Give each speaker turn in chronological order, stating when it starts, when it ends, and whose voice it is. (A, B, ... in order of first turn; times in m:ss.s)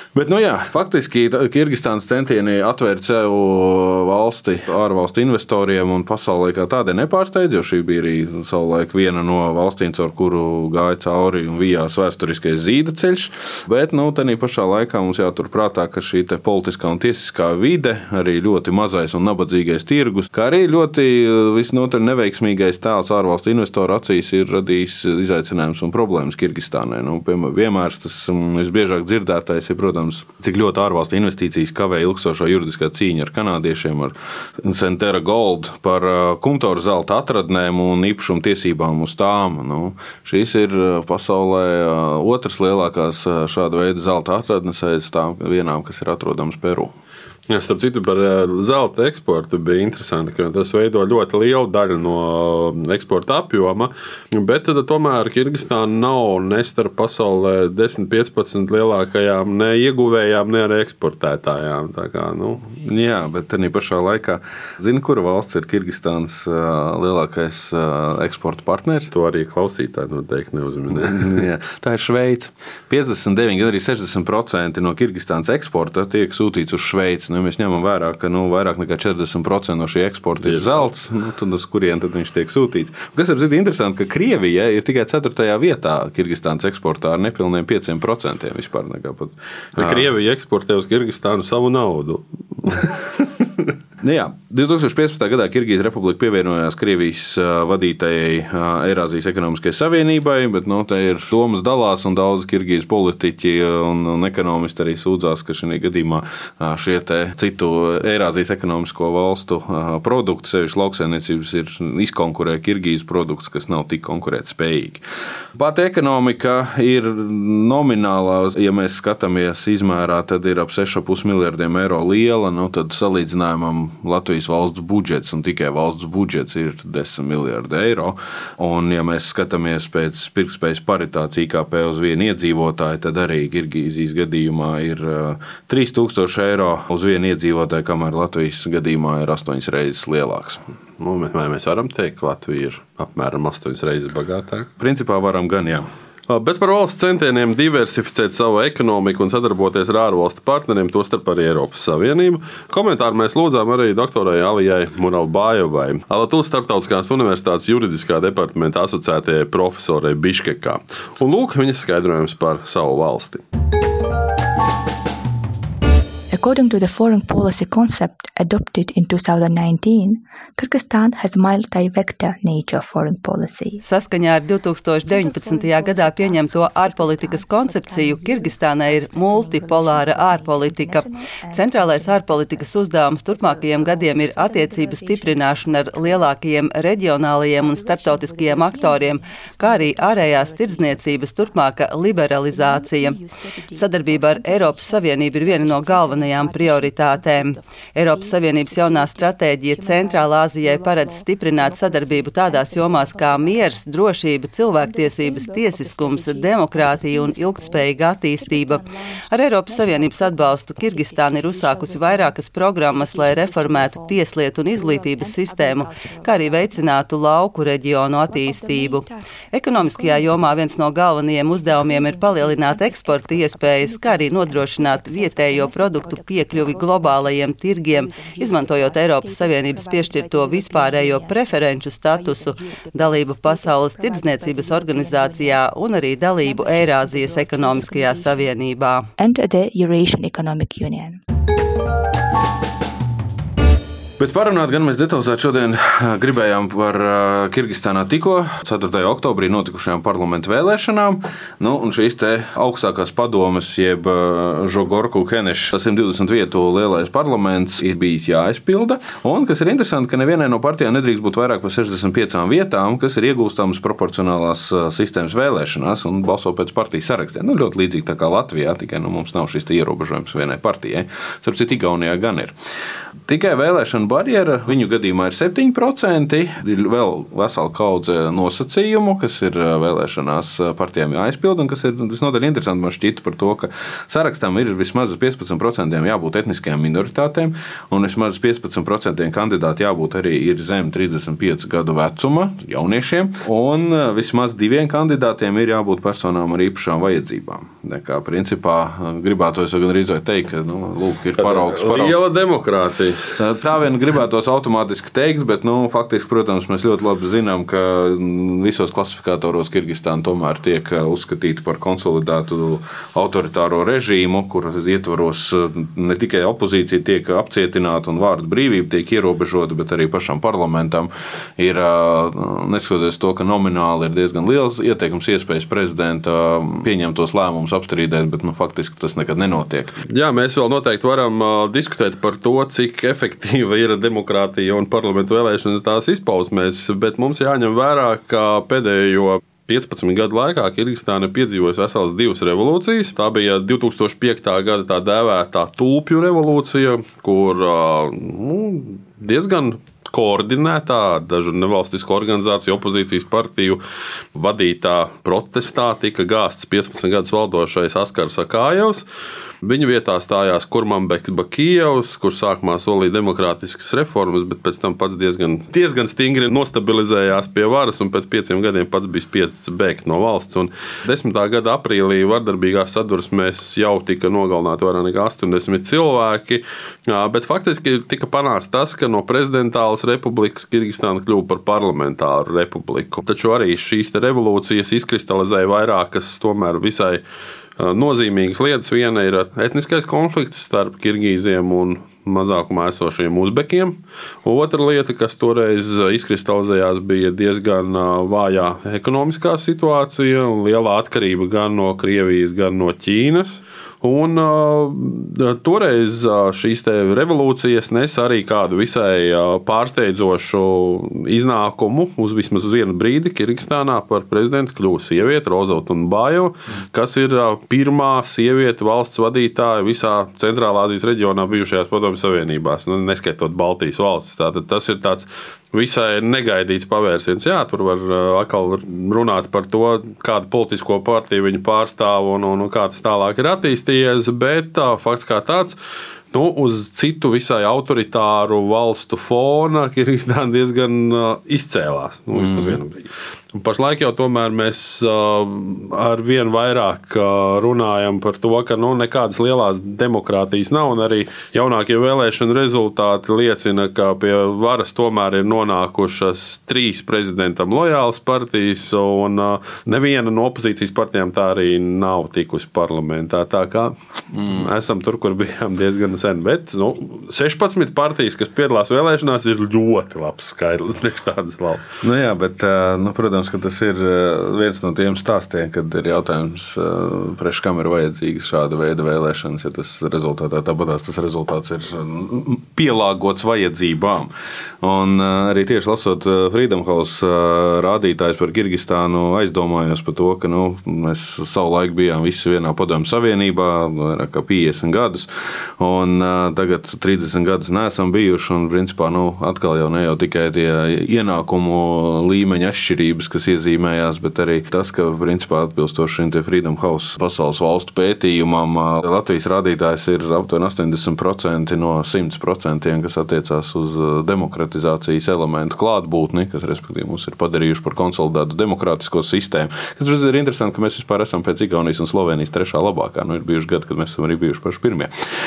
0:00.1-0:46.9 A
0:47.5-1:02.6 B
1:02.7-1:09.1 A
1:09.1-1:11.5 B
1:10.9-1:30.1 A
1:20.4-1:20.9 B
1:29.8-1:33.7 B
1:34.0-1:55.0 A
1:55.6-2:20.6 A
2:21.0-2:24.7 B
2:24.8-2:25.9 A
2:26.3-2:43.4 B
2:46.3-2:53.8 C
2:53.8-3:13.2 D
2:55.0-3:06.3 C
3:07.5-3:11.7 C
3:12.3-3:23.8 C
3:13.7-3:59.1 D
3:24.8-3:37.0 C
3:38.1-3:40.7 C
3:41.5-3:58.6 C
3:59.2-4:01.2 C
4:04.2-4:32.5 A
4:33.3-5:02.2 A
5:01.4-5:03.2 B
5:03.4-5:29.9 A
5:30.1-5:53.8 B
5:54.4-5:59.0 B
5:59.6-6:27.2 B
6:27.8-7:15.8 B
7:16.3-7:52.0 B
7:22.3-7:22.8 A
7:52.0-8:04.3 A
8:04.8-8:45.1 A